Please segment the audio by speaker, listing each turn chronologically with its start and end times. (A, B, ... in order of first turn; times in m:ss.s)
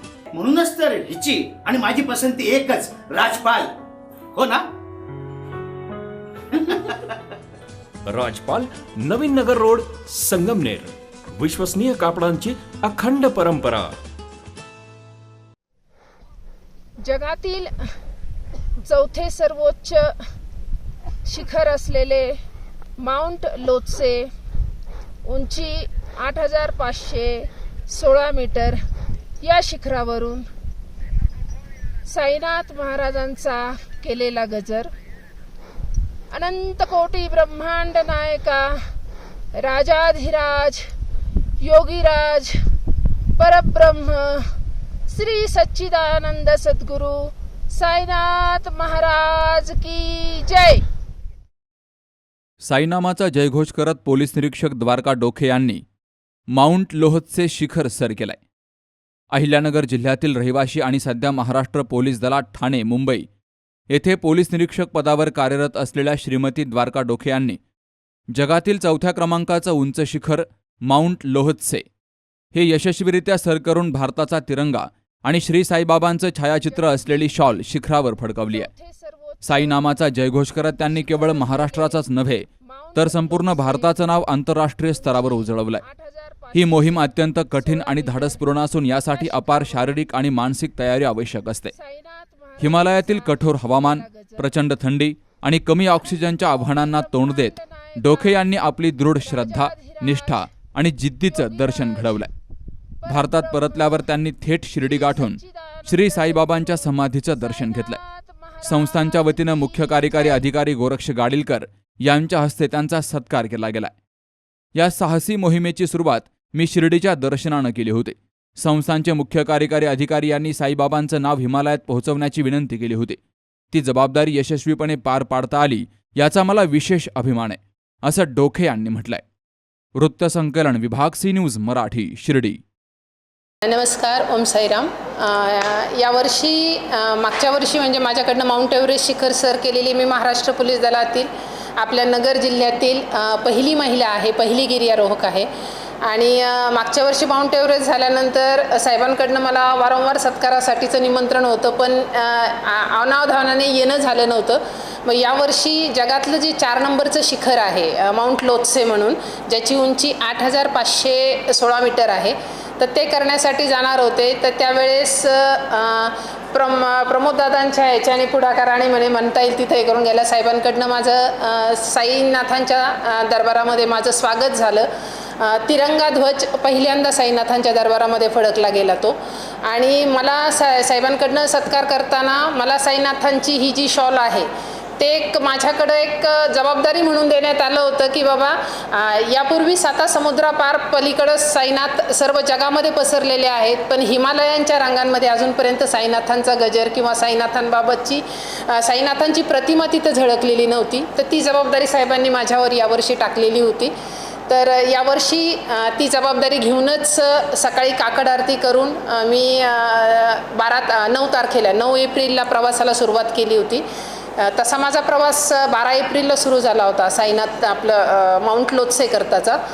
0:00.3-0:03.8 A
0:04.3-0:04.7 A
0:06.5-0:07.1 A
0:08.1-0:13.9 B
0:17.0-0:17.7 C
0:18.8-0:20.1 C
0:21.3-0:22.3 C
0:23.0-0:24.2 C
0:25.2-0:28.8 C
0:29.4-0:30.5 C
0:32.1-0:34.9 C
0:36.3-0:38.8 C
0:39.6-0:40.9 C
0:41.6-0:42.6 C
0:43.4-0:44.5 C
0:45.1-0:50.8 C
0:52.6-0:55.8 D
0:56.5-0:58.4 D
0:59.3-1:03.3 D
1:03.9-1:07.6 D
1:08.3-1:11.9 D
1:12.5-1:18.7 D
1:16.6-1:17.7 C
1:18.5-1:20.1 C
1:19.4-1:25.8 D
1:20.7-1:22.1 C
1:22.6-1:24.1 C
1:24.9-1:30.2 C
1:26.5-1:31.7 D
1:31.7-1:34.6 C
1:32.6-1:42.3 D
1:36.0-1:40.7 C
1:41.2-1:42.3 C
1:43.0-1:50.5 C
1:43.1-1:48.0 D
1:48.6-1:53.9 D
1:54.8-2:03.2 D
2:03.7-2:09.2 D
2:10.0-2:12.6 D
2:13.6-2:25.5 E
2:26.0-2:54.9 E
2:55.4-3:23.9 E
3:24.5-3:33.8 E
3:34.4-3:39.6 E